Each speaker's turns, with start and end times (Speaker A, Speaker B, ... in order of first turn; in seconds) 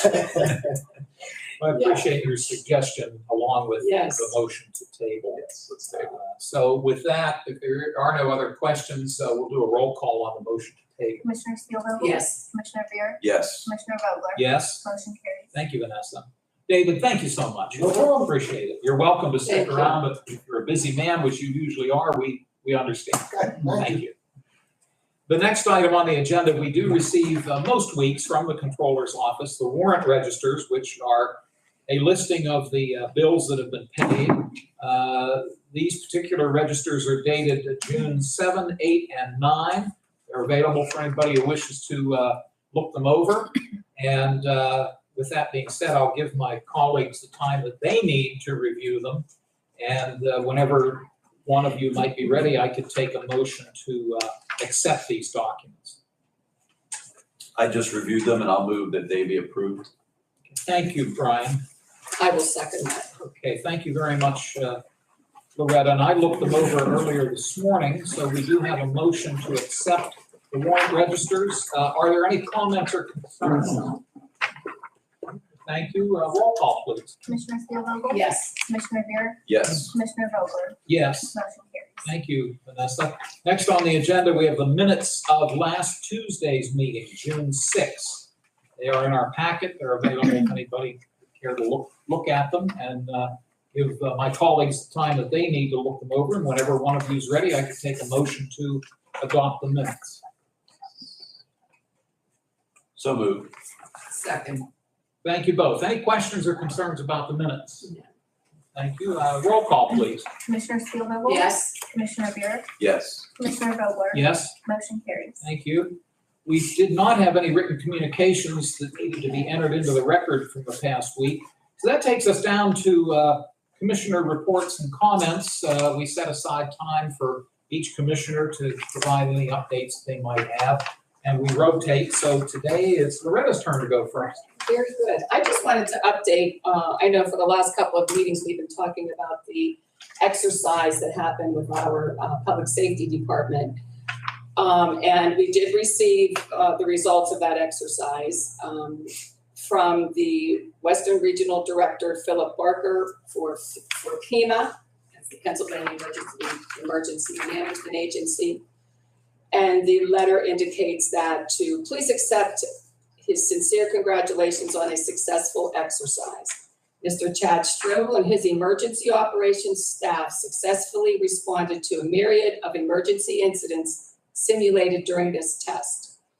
Speaker A: 1.6-11.3, 14.3-14.9, 15.5-24.1, 25.3-49.2, 49.8-56.0, 60.5-61.6, 63.2-64.8, 65.5-74.0, 75.6-77.2, 80.9-81.4, 82.0-100.2, 105.2-107.9, 108.7-110.3, 114.1-114.5, 115.4-134.5
Speaker B: 1.8-2.0, 3.8-4.3, 12.0-12.4, 19.4-20.0, 62.1-63.1, 78.1-78.5, 104.1-104.7, 111.2-111.7, 134.6-143.8, 144.6-158.6, 159.5-176.1
Speaker C: 5.4-6.1, 13.2-13.7, 57.5-59.9, 79.5-79.9, 103.0-103.5, 112.8-113.3
Speaker D: 11.2-15.5, 77.2-80.8, 81.3-82.0, 110.4-112.7, 113.4-115.4